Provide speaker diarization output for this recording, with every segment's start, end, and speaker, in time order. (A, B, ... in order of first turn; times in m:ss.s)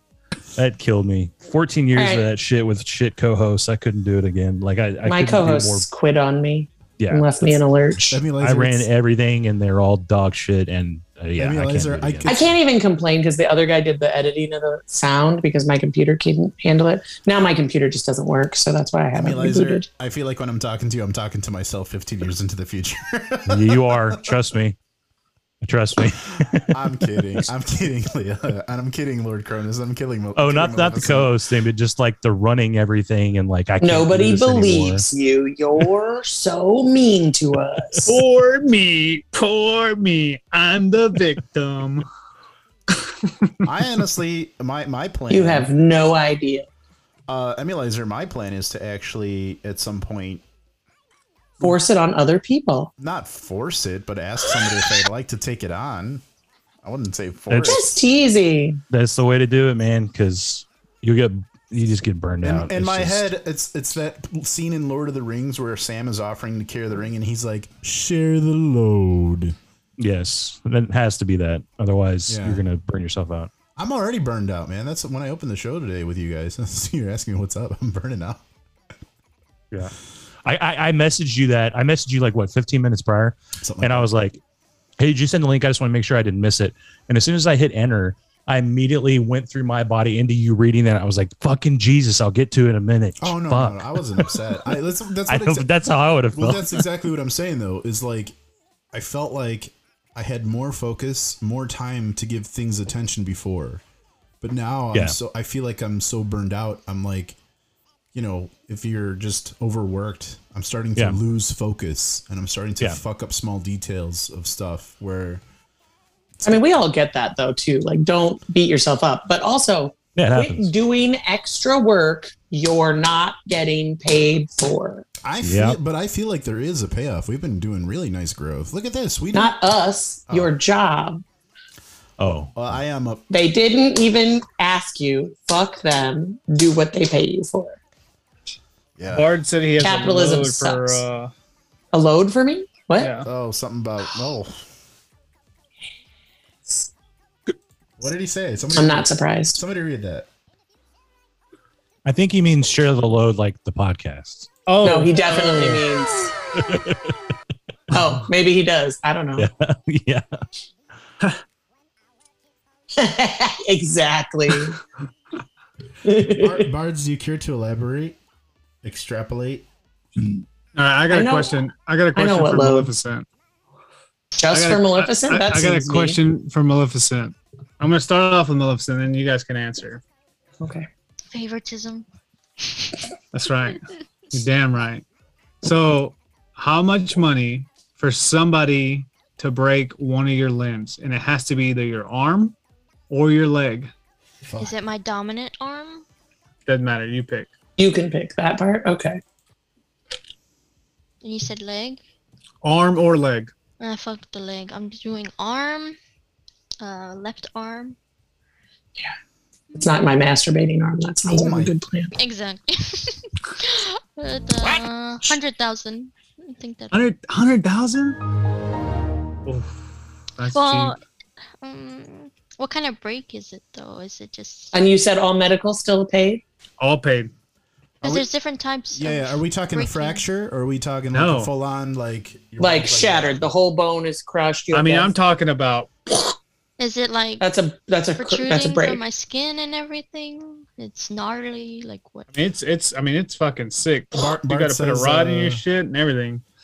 0:00.6-0:05.9 A
0:01.9-0:02.3 B
0:05.0-0:08.2 B
0:07.0-0:07.3 A
0:08.1-0:08.9 C
0:08.4-0:12.3 A
0:11.4-0:12.6 C
0:12.2-0:19.8 B
0:19.1-0:24.4 C
0:23.5-0:24.8 A
0:25.6-0:26.8 A
0:26.7-0:31.4 C
0:30.4-0:35.0 A
0:33.8-0:38.2 B
0:38.0-0:42.0 D
0:42.9-0:43.5 D
0:43.6-0:45.7 C
0:45.3-0:46.7 B
0:47.3-0:50.4 C
0:51.6-0:52.9 B
0:53.0-0:56.2 C
0:56.8-0:58.0 C
0:57.5-0:57.8 A
0:57.6-0:58.8 B
0:58.9-1:03.3 A
1:02.4-1:09.6 C
1:10.0-1:13.5 A
1:12.3-1:12.6 C
1:13.8-1:18.4 C
1:19.7-1:24.4 A
1:23.6-1:24.1 C
1:25.0-1:34.4 A
1:33.2-1:38.3 C
1:35.3-1:36.8 A
1:38.9-1:43.8 C
1:44.4-1:47.4 C
1:48.1-1:55.4 C
1:56.4-1:56.6 C
1:56.4-2:05.0 B
2:00.2-2:00.7 A
2:05.2-2:09.5 C
2:05.4-2:05.8 A
2:09.3-2:11.2 B
2:10.3-2:10.5 C
2:12.2-2:12.5 A
2:12.2-2:13.2 C
2:13.3-2:17.8 B
2:19.0-2:19.4 C
2:19.1-2:21.3 D
2:19.8-2:21.0 B
2:21.9-2:23.1 B
2:23.0-2:23.3 D
2:23.2-2:24.6 C
2:28.0-2:30.3 C
2:28.7-2:29.6 B
2:32.0-2:34.5 A
2:34.6-2:35.9 D
2:34.8-2:36.3 B
2:36.6-2:37.0 A
2:37.9-2:39.5 B
2:39.4-2:40.3 A
2:43.0-2:44.8 B
2:46.0-2:46.7 B
2:46.3-2:48.2 C
2:48.8-2:49.6 C
2:50.7-2:53.2 D
2:51.1-2:52.9 B
2:54.4-2:56.2 B
2:54.5-3:00.0 D
3:00.6-3:00.9 B
3:01.3-3:02.0 E
3:03.3-3:05.0 D
3:05.6-3:12.5 D
3:13.1-3:13.9 D
3:14.5-3:14.7 C
3:14.6-3:16.0 E
3:16.6-3:17.5 D
3:17.8-3:19.2 B
3:21.2-3:22.0 E
3:22.6-3:23.5 D
3:23.8-3:26.0 E
3:26.8-3:28.0 E
3:29.7-3:32.1 B
3:31.3-3:31.7 C
3:32.1-3:37.0 E
3:36.9-3:38.2 D
3:39.4-3:39.8 D
3:40.4-3:41.0 D
3:40.5-3:41.0 E
3:41.6-3:44.7 E
3:44.7-3:46.4 B
3:46.8-3:47.3 D
3:48.0-3:48.3 C
3:48.0-3:50.2 E
3:48.9-3:53.5 C
3:51.1-3:51.5 D
3:52.6-3:55.1 B
3:54.7-3:55.9 D
3:56.8-3:57.4 E
3:57.4-3:59.0 B
3:58.2-4:02.3 E
4:02.3-4:06.4 D
4:04.1-4:05.6 C